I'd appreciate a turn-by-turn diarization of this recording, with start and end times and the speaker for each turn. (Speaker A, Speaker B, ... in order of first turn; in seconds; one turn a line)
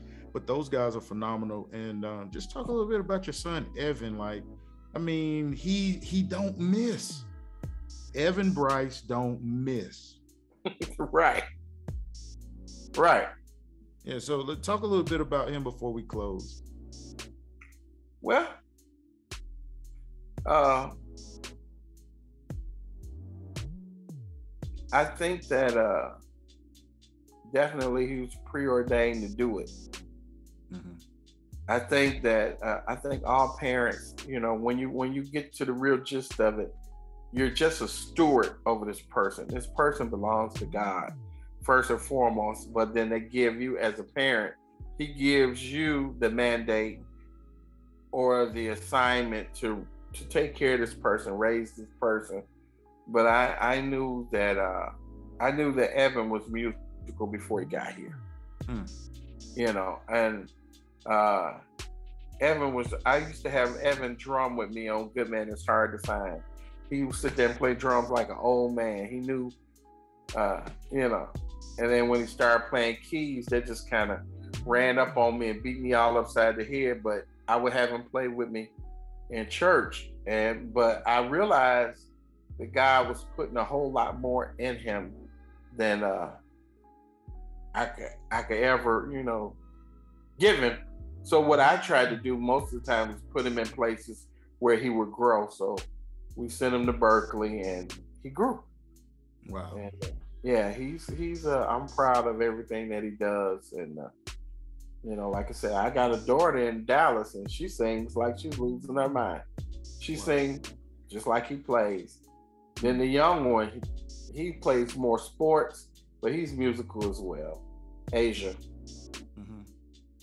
Speaker A: 0.3-7.3
Speaker A: 8.1-10.2
Speaker B: 10.7-11.4
Speaker B: 12.9-13.3
Speaker A: 14.0-16.6
Speaker B: 18.2-18.6
Speaker B: 20.4-21.0
Speaker B: 24.9-26.1
Speaker B: 27.5-29.7
Speaker A: 30.7-31.0
Speaker B: 31.7-36.7
Speaker B: 37.3-47.0
Speaker B: 48.1-52.5
Speaker B: 53.0-54.9
Speaker B: 55.4-58.2
Speaker B: 59.5-60.5
Speaker B: 61.1-61.6
Speaker B: 62.4-69.5
Speaker B: 70.3-78.7
Speaker B: 79.3-85.2
Speaker B: 85.7-86.4
Speaker B: 87.7-89.6
Speaker B: 90.4-98.7
Speaker A: 99.4-99.8
Speaker B: 99.7-104.1
Speaker B: 105.0-109.4
Speaker B: 110.0-112.2
Speaker A: 110.1-110.4
Speaker B: 112.8-118.6
Speaker A: 119.3-119.7